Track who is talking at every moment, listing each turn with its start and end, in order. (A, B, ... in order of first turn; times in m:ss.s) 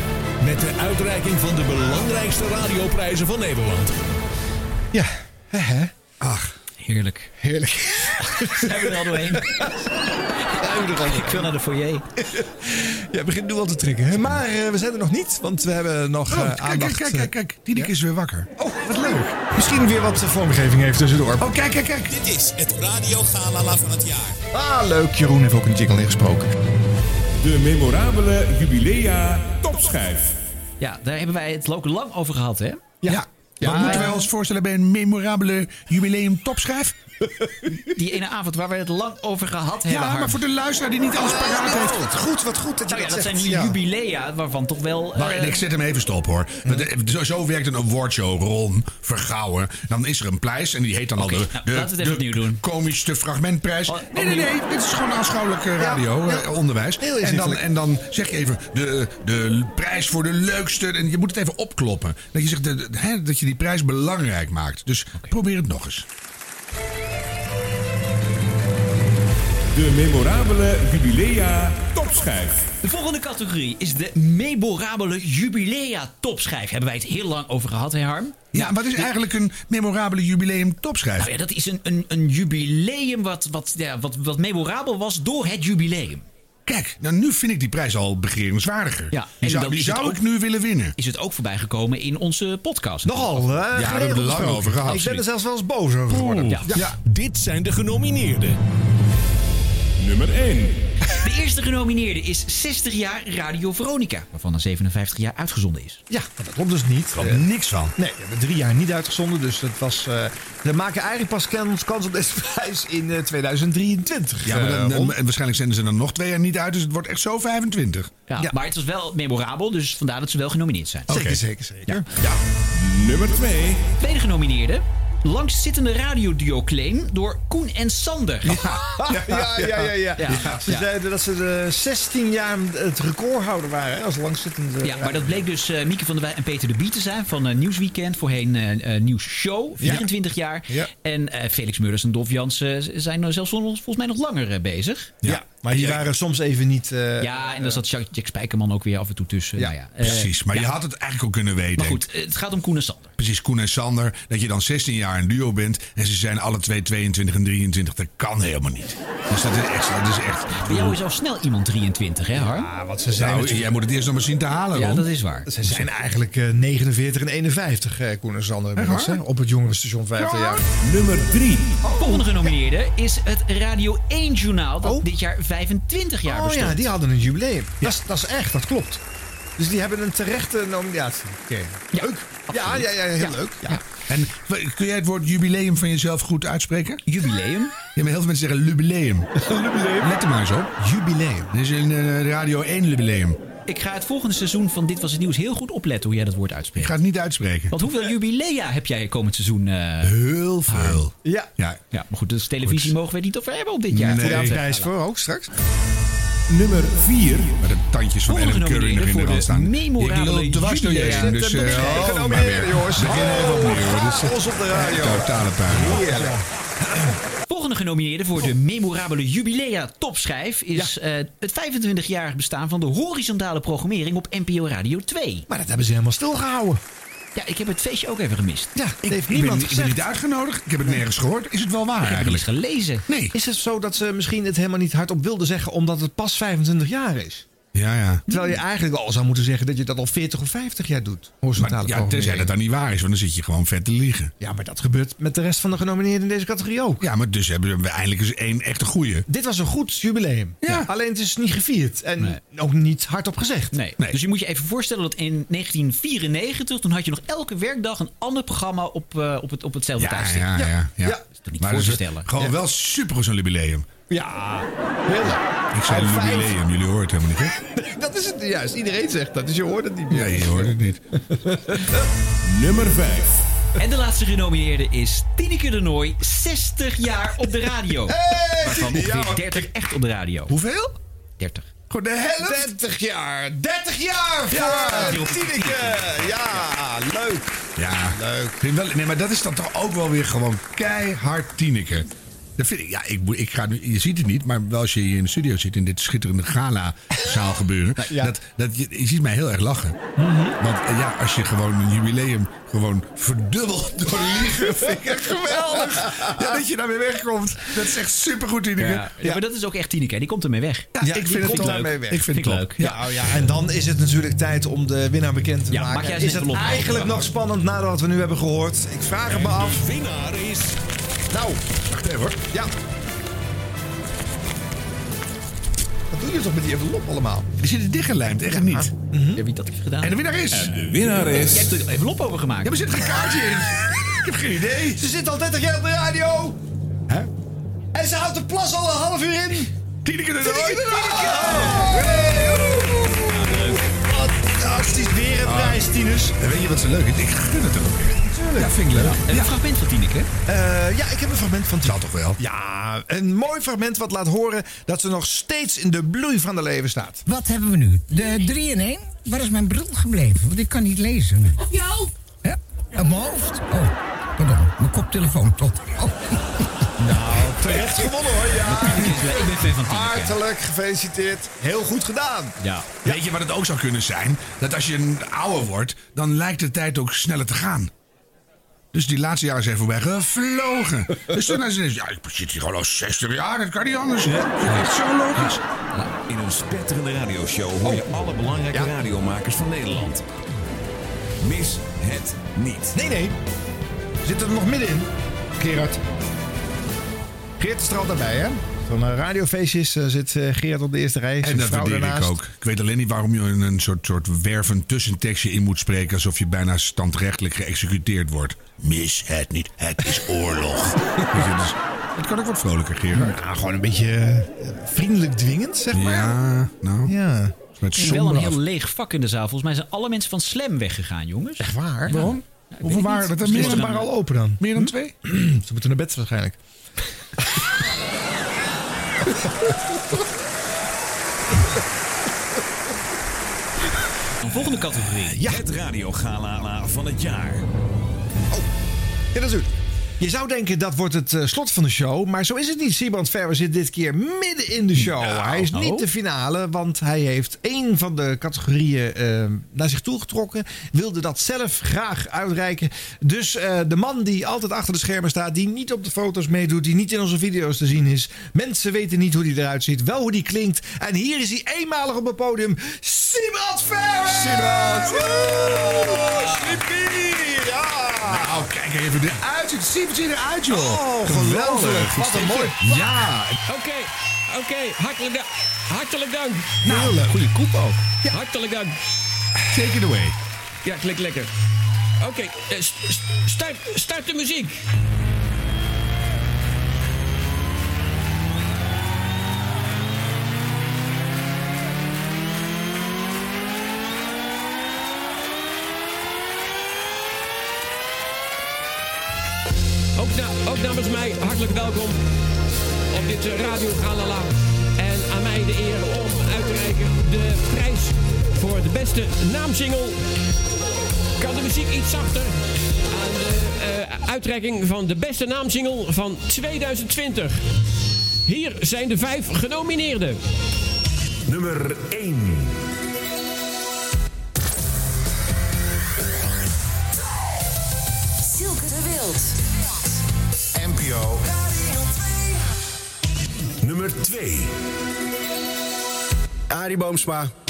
0:00.4-0:04.0 A
0:04.9-0:05.9 B
0:06.2-0:06.5 C
0:06.8-0:07.3 D
0:07.4-0:09.8 B
0:08.5-0:09.7 D
0:10.6-0:11.5 B
0:10.6-0:12.1 D
0:12.2-0:17.9 B
0:16.3-0:19.4 C
0:18.6-0:21.5 B
0:21.4-0:22.2 C
0:22.1-0:24.3 A
0:24.5-0:26.5 B
0:27.4-0:30.4 E
0:30.8-0:32.8 D
0:33.0-0:34.3 B
0:33.1-0:37.0 C
0:37.9-0:40.4 D
0:39.8-0:42.1 C
0:41.2-0:43.8 B
0:42.9-0:45.6 D
0:45.2-1:06.1 C
0:51.2-0:52.6 D
0:53.9-0:54.5 D
0:55.8-0:57.6 B
1:09.7-1:12.7 E
1:12.8-1:19.1 D
1:18.5-1:21.3 C
1:21.2-1:26.3 D
1:26.7-1:31.0 C
1:29.1-1:30.2 D
1:31.0-1:33.5 D
1:33.0-1:36.9 B
1:33.7-1:35.3 C
1:36.2-1:36.9 C
1:36.4-1:36.7 D
1:37.0-1:38.6 A
1:40.0-1:40.9 E
1:41.2-1:46.0 D
1:46.1-1:55.2 B
1:47.1-1:48.0 C
1:54.4-1:58.1 C
1:58.3-2:01.2 D
2:01.1-2:01.4 C
2:01.1-2:02.1 B
2:02.7-2:03.9 E
2:04.0-2:08.7 D
2:09.0-2:15.4 B
2:09.0-2:10.7 C
2:10.2-2:10.9 D
2:14.8-2:25.2 D
2:19.8-2:20.1 B
2:25.2-2:27.8 B
2:27.2-2:30.7 D
2:30.0-2:32.0 C
2:31.8-2:33.2 D
2:33.2-2:41.0 C
2:40.6-2:42.7 D
2:42.4-2:43.7 B
2:43.2-2:45.1 C
2:44.7-2:45.5 D
2:45.5-2:50.6 B
2:48.8-2:49.2 C
2:50.8-2:51.8 E
2:51.8-2:52.5 B
2:52.0-2:56.9 D
2:56.3-2:59.0 B
2:59.6-3:03.8 B
3:01.9-3:03.8 D
3:04.1-3:07.0 C
3:07.1-3:07.7 D
3:08.0-3:09.3 C
3:09.4-3:10.1 B
3:10.0-3:10.7 C
3:10.8-3:11.5 B
3:11.5-3:13.4 C
3:13.7-3:17.0 D
3:16.8-3:17.8 C
3:17.7-3:20.1 D
3:20.0-3:21.8 C
3:20.7-3:21.0 D
3:21.9-3:24.9 D
3:22.6-3:23.0 C
3:23.9-3:24.6 C
3:24.2-3:25.5 B
3:26.5-3:27.6 E
3:27.6-3:36.1 C
3:28.3-3:32.2 D
3:30.9-3:37.2 B
3:37.5-3:45.5 D
3:45.5-3:46.8 B
3:47.4-3:48.7 D
3:48.8-3:50.0 B
3:49.0-3:52.5 C
3:52.0-3:53.0 D
3:53.1-3:53.4 C
3:53.3-3:57.4 B
3:57.7-3:58.3 C
3:58.3-4:02.5 B
4:01.6-4:04.3 C
4:04.4-4:07.0 B
4:07.0-4:09.3 C
4:09.3-4:13.8 B
4:10.6-4:10.9 C
4:13.7-4:20.5 D
4:20.0-4:23.9 C
4:20.6-4:21.2 B
4:21.4-4:22.3 D
4:24.1-4:26.6 B
4:25.7-4:27.6 C
4:27.7-4:30.7 B
4:30.1-4:31.0 C
4:31.7-4:32.0 B
4:32.4-4:33.4 E
4:33.8-4:40.5 D
4:38.1-4:39.7 B
4:40.5-4:41.0 C
4:41.4-4:41.7 D
4:41.9-4:42.7 C
4:42.4-4:48.6 B
4:44.5-4:45.3 C
4:44.8-4:46.7 D
4:47.8-5:00.0 C
5:00.2-5:00.6 B
5:00.6-5:09.1 C
5:04.6-5:07.6 B
5:08.8-5:13.0 D
5:11.0-5:13.1 C
5:11.0-5:12.3 B
5:12.8-5:19.8 B
5:15.7-5:17.3 D
5:19.3-5:20.8 A
5:21.3-5:21.6 B
5:21.9-5:22.4 C
5:26.1-5:27.5 B
5:27.6-5:28.9 C
5:28.5-5:29.4 B
5:29.3-5:30.2 D
5:30.0-5:30.7 C
5:30.5-5:31.7 E
5:31.4-5:32.8 D
5:32.6-5:35.0 C
5:35.0-5:36.6 B
5:37.9-5:39.7 B
5:40.0-5:42.4 C
5:40.4-5:46.4 B
5:41.4-5:41.7 D
5:43.3-5:43.8 D
5:45.4-5:45.8 C
5:46.4-5:49.5 C
5:48.3-5:48.7 B
5:49.0-5:50.3 D
5:50.5-5:57.2 B
5:51.8-5:52.4 C
5:57.3-6:01.6 F
6:02.4-6:06.2 F
6:07.0-6:13.2 B
6:08.6-6:10.4 D
6:12.6-6:12.9 D
6:13.0-6:17.9 C
6:18.9-6:25.6 C
6:25.9-6:30.3 G
6:31.4-6:33.0 G
6:33.0-6:33.4 B
6:34.2-6:36.0 B
6:37.6-6:42.4 B
6:41.4-6:53.4 C
6:53.1-6:56.4 B
6:55.9-6:57.2 C
6:57.1-6:58.5 B
6:57.8-6:58.5 C
6:58.0-7:04.1 D
7:01.6-7:02.4 B
7:02.1-7:04.0 C
7:03.4-7:06.6 B
7:04.6-7:05.1 C
7:14.4-7:15.4 D
7:15.4-7:17.6 G
7:19.3-7:48.6 B
7:25.0-7:26.0 D
7:44.3-7:46.8 C
7:48.3-7:53.6 C
7:50.7-7:53.3 B
7:53.7-7:56.8 H
7:56.8-7:57.4 B
7:56.9-7:58.0 D
7:58.3-7:59.0 H
7:59.7-8:00.3 C
8:00.8-8:01.5 H
8:02.2-8:04.8 H
8:20.2-8:22.2 H
8:23.1-8:30.2 H
8:31.4-8:32.5 H
8:33.1-8:37.6 H
8:38.5-8:40.4 H